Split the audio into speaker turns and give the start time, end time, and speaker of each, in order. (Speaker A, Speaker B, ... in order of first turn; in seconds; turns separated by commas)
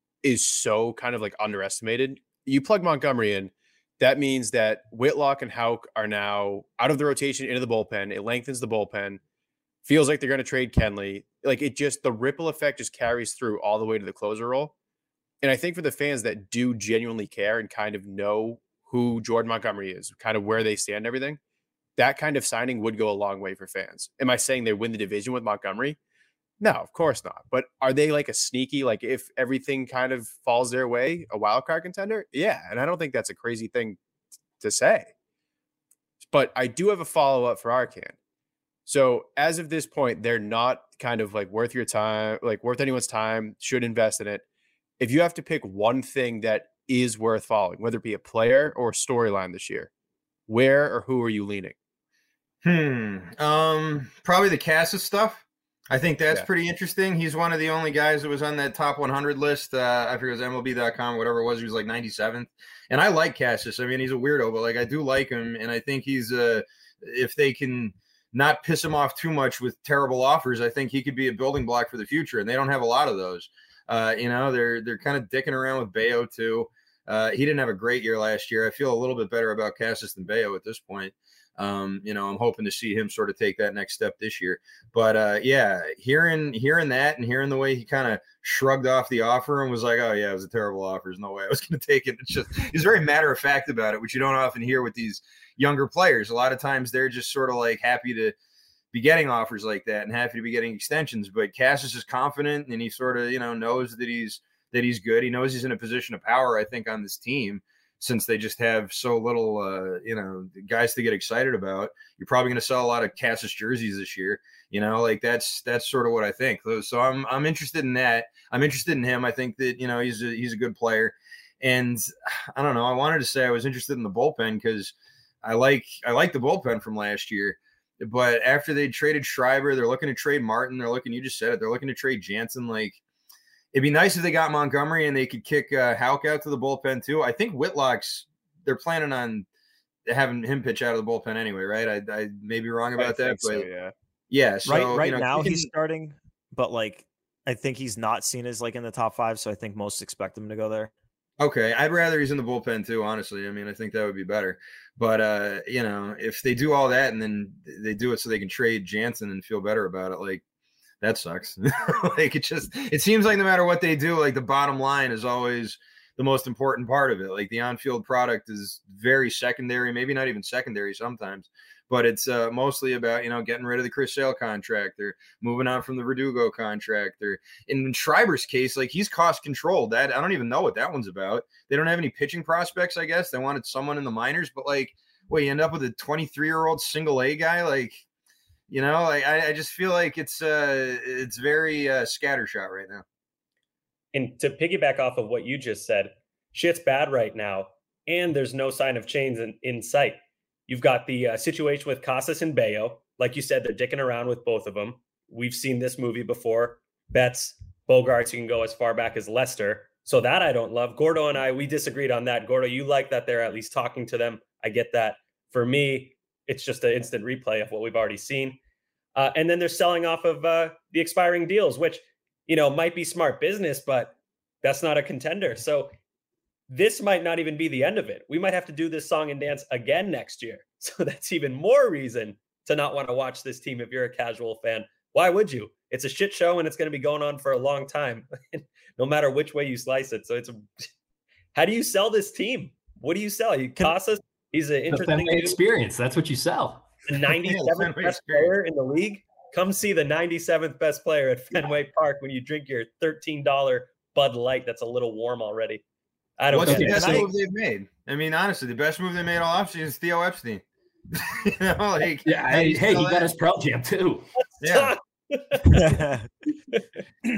Speaker A: 0.2-9.2, Speaker A: 9.8-14.7, Speaker A: 15.4-21.4, Speaker A: 22.0-26.0, Speaker A: 26.6-34.0, Speaker A: 34.6-35.1, Speaker A: 36.2-38.1, Speaker A: 38.9-44.4, Speaker A: 45.0-49.9, Speaker A: 50.5-51.7, Speaker B: 52.6-98.3, Speaker B: 98.9-133.0, Speaker B: 133.7-139.4, Speaker B: 140.1-143.7, Speaker A: 143.0-143.9, Speaker B: 144.3-145.7, Speaker C: 144.7-150.9, Speaker B: 151.4-160.4, Speaker B: 161.0-188.0, Speaker B: 188.7-193.0, Speaker D: 194.1-218.6, Speaker D: 219.2-225.9, Speaker D: 226.7-240.7, Speaker D: 241.5-245.6, Speaker E: 244.9-246.9, Speaker D: 247.1-255.8, Speaker B: 247.3-248.5, Speaker D: 256.4-257.3, Speaker B: 256.5-263.3, Speaker E: 256.6-257.3, Speaker E: 262.2-264.3, Speaker D: 264.6-266.0, Speaker B: 264.6-264.9, Speaker C: 265.7-266.3